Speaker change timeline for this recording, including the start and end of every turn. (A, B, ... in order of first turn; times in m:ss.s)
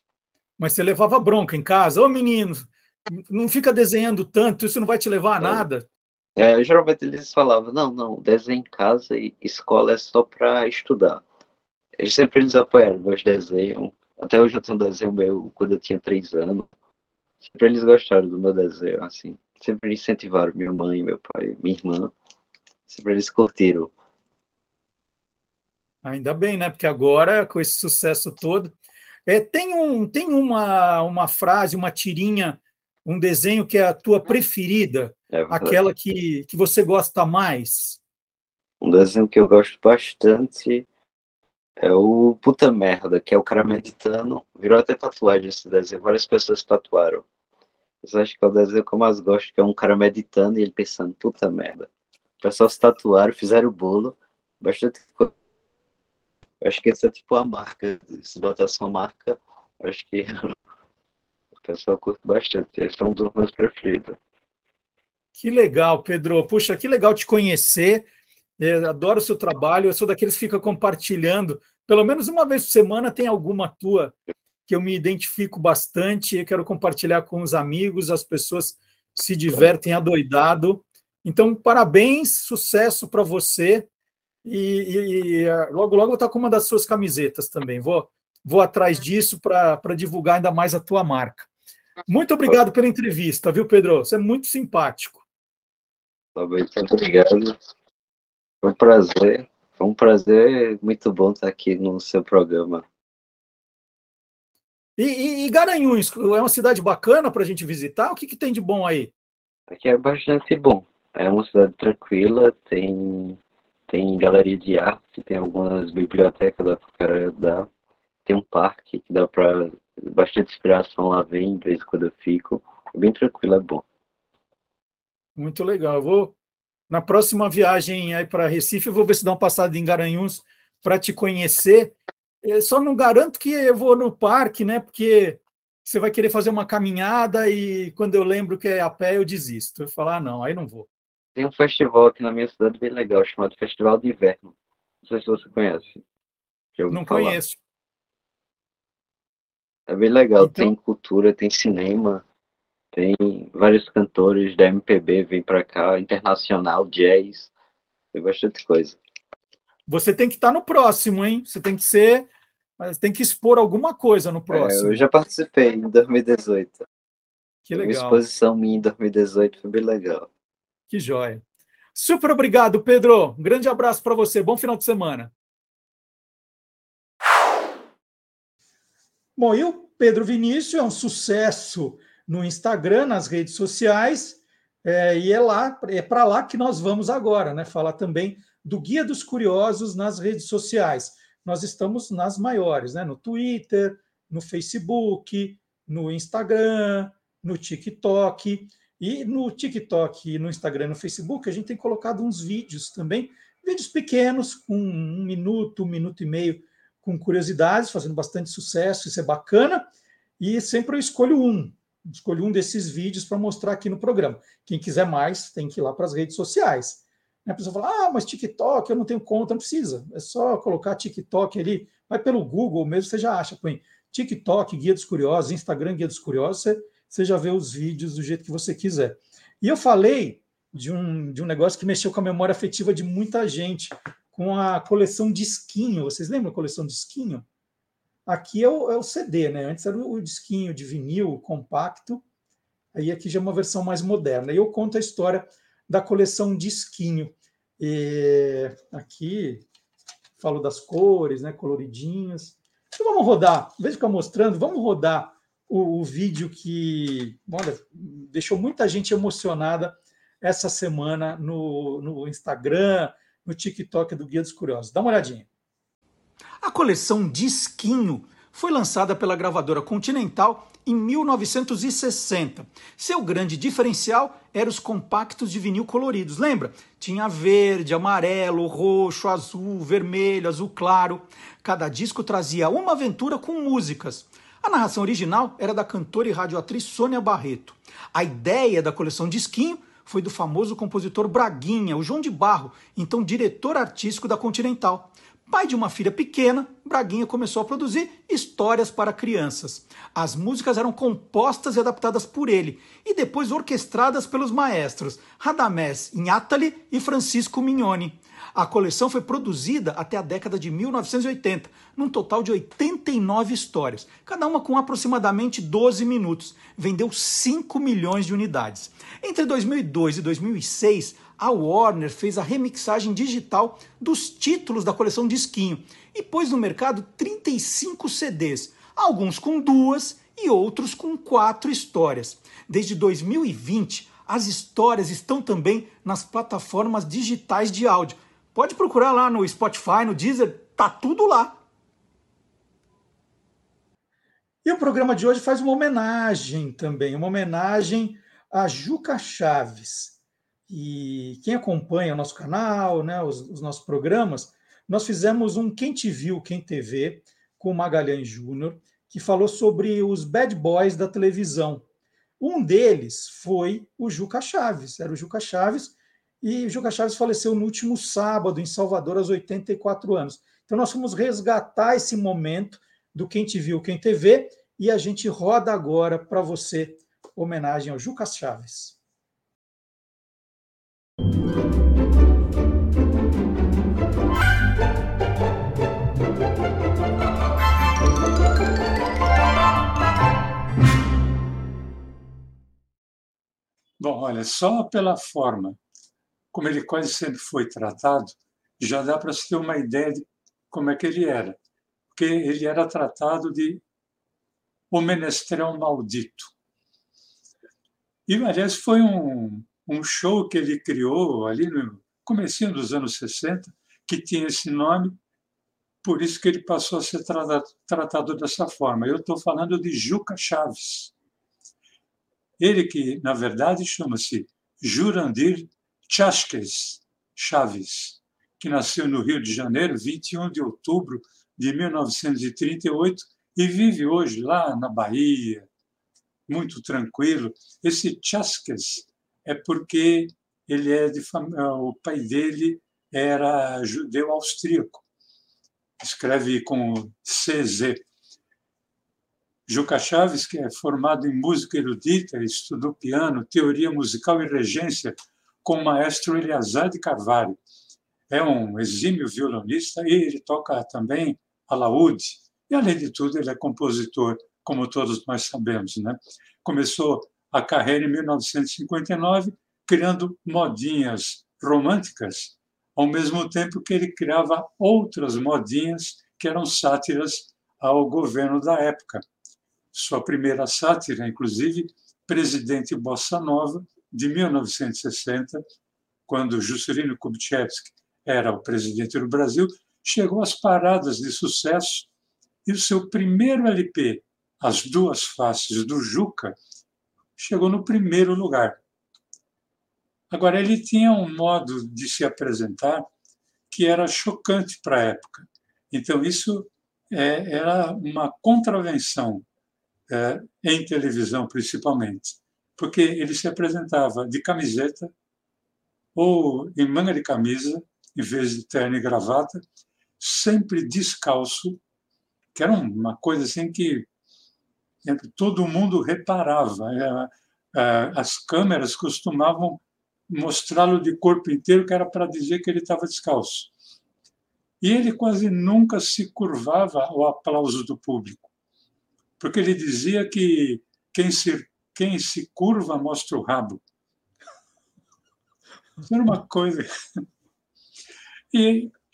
0:00.6-0:05.8 A
0:06.4-0:11.2 B
0:12.0-0:16.6 B
0:17.4-0:22.1 B
0:22.9-0:23.9 B
0:26.0-0:28.7 A
0:29.3-0:38.0 A
0:35.3-0:35.8 B
0:38.8-0:40.9 B
0:41.8-0:47.2 B
0:48.0-0:51.9 B
0:52.4-0:55.3 B
0:56.6-1:00.5 B
1:01.6-1:04.2 B
1:05.4-1:08.0 A
1:08.6-1:14.1 A
1:14.7-1:23.8 A
1:24.4-1:31.5 A
1:32.1-1:35.2 A
1:36.3-1:37.6 B
1:38.6-1:42.8 B
1:45.0-1:49.1 A
1:49.7-1:53.4 B
1:53.9-1:57.7 B
1:58.2-2:03.8 B
2:05.4-2:06.3 A
2:06.9-2:20.9 A
2:21.4-2:24.5 B
2:25.0-2:26.0 B
2:26.8-2:27.4 B
2:26.9-2:27.6 A
2:29.9-2:32.2 B
2:30.4-2:30.7 A
2:32.9-2:37.5 B
2:38.1-2:39.0 B
2:39.9-2:42.3 A
2:42.8-2:45.0 A
2:44.5-2:46.8 B
2:47.7-2:48.2 A
2:47.7-2:50.3 B
2:50.9-2:51.4 A
2:51.9-2:55.3 A
2:59.4-3:29.9 A
3:30.4-3:57.4 A
3:58.2-4:02.2 A
4:02.9-4:09.6 A
4:10.4-4:25.4 A
4:26.6-5:41.6 A
5:44.6-5:50.1 A
5:50.7-6:01.8 A
6:02.4-6:19.0 A
6:34.0-6:35.8 C
6:36.5-6:41.6 C
6:42.1-6:43.8 C
6:44.9-6:46.5 C
6:48.3-6:55.2 C
6:56.0-7:01.1 C
7:02.6-7:15.7 C
7:16.5-7:25.0 C
7:26.0-7:28.0 C
7:29.7-7:37.6 C
7:38.3-7:59.2 C
7:59.9-8:05.6 C
8:06.3-8:12.1 C
8:12.6-8:16.6 C
8:17.4-8:18.8 C
8:20.3-8:23.1 C
8:23.7-8:29.4 C
8:30.1-8:35.1 C
8:36.1-8:39.6 C
8:40.2-8:41.8 C
8:42.5-8:44.0 C
8:45.0-8:53.7 C
8:54.8-8:58.5 C
8:59.4-9:03.8 C
9:06.0-9:06.9 C
9:08.5-9:08.9 C